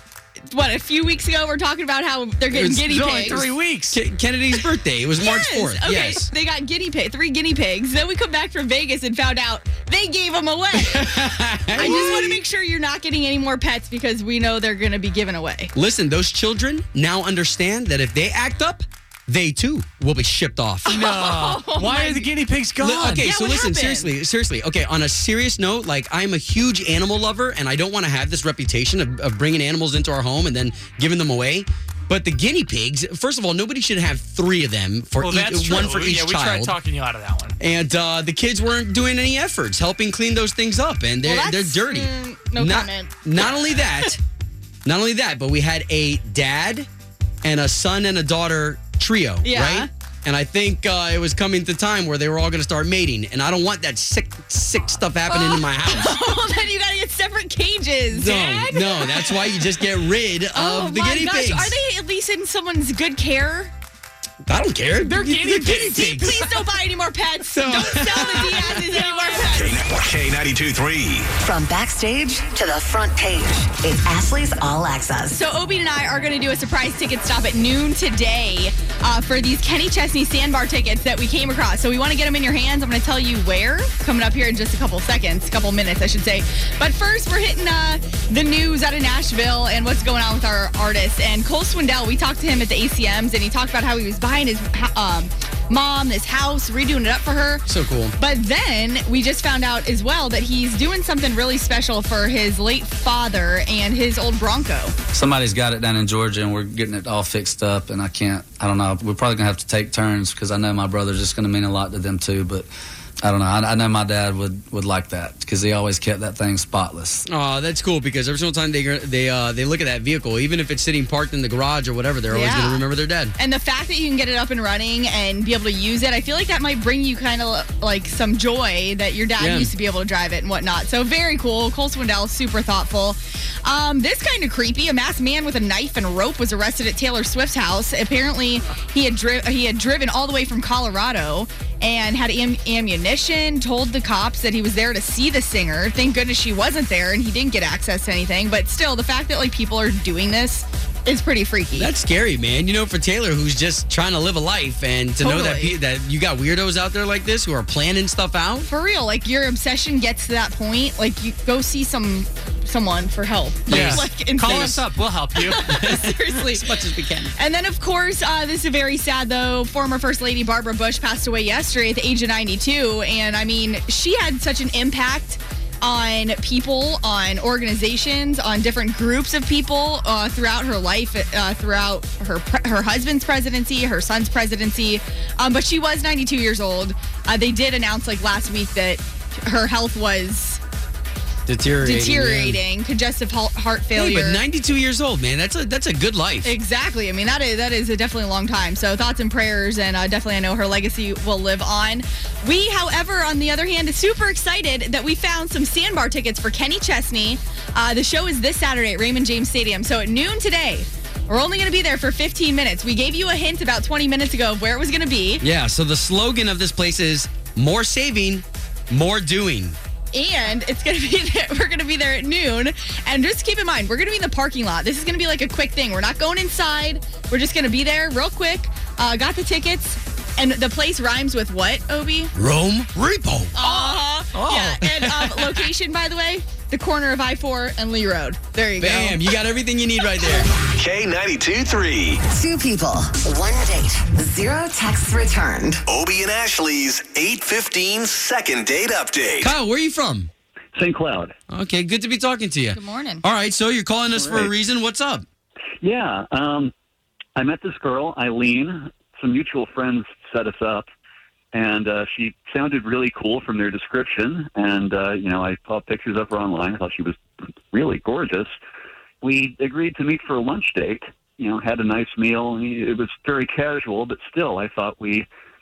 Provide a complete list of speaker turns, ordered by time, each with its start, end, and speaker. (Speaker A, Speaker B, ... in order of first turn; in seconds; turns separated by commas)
Speaker A: 0.5-3.5, Speaker B: 2.5-6.3, Speaker C: 2.8-4.0, Speaker A: 5.2-11.1, Speaker B: 10.7-12.4, Speaker A: 11.7-15.7, Speaker B: 15.7-21.1, Speaker A: 20.9-22.3, Speaker C: 20.9-23.3, Speaker B: 22.8-36.8, Speaker A: 23.1-24.1, Speaker C: 35.1-37.5, Speaker B: 37.6-44.2, Speaker A: 41.2-43.1, Speaker B: 44.8-46.9, Speaker B: 47.4-56.2, Speaker A: 49.4-49.9, Speaker A: 55.3-59.5, Speaker B: 58.1-61.7, Speaker A: 60.5-63.7, Speaker B: 64.4-66.5, Speaker A: 65.1-69.8, Speaker C: 65.2-66.0, Speaker B: 67.5-69.0, Speaker D: 69.5-71.3, Speaker E: 71.4-75.4, Speaker A: 75.3-97.6, Speaker B: 97.7-98.1, Speaker A: 98.2-104.9, Speaker F: 105.1-112.7, Speaker F: 113.2-117.2, Speaker B: 117.3-123.3, Speaker A: 122.3-122.8, Speaker A: 123.4-151.9, Speaker B: 129.4-129.7, Speaker B: 151.7-158.7, Speaker A: 155.2-155.7, Speaker A: 158.7-164.8, Speaker B: 163.7-164.7, Speaker C: 163.7-165.7, Speaker A: 165.3-166.7, Speaker B: 165.6-167.3, Speaker A: 167.3-190.6, Speaker B: 191.5-192.6, Speaker A: 191.8-194.4, Speaker B: 193.9-196.5, Speaker A: 196.4-215.4, Speaker B: 215.4-219.8, Speaker A: 220.1-232.3, Speaker B: 232.3-233.6, Speaker A: 233.6-239.3, Speaker C: 234.4-234.7, Speaker B: 234.9-235.5, Speaker B: 238.8-240.5, Speaker D: 240.8-242.2, Speaker E: 242.3-245.8, Speaker D: 245.9-249.5, Speaker B: 249.4-250.3, Speaker G: 250.7-251.3, Speaker B: 251.5-255.2, Speaker A: 252.7-253.2, Speaker G: 254.1-254.5, Speaker G: 255.8-256.7, Speaker G: 257.4-260.9, Speaker G: 261.5-267.2, Speaker G: 267.7-268.5, Speaker G: 269.2-275.2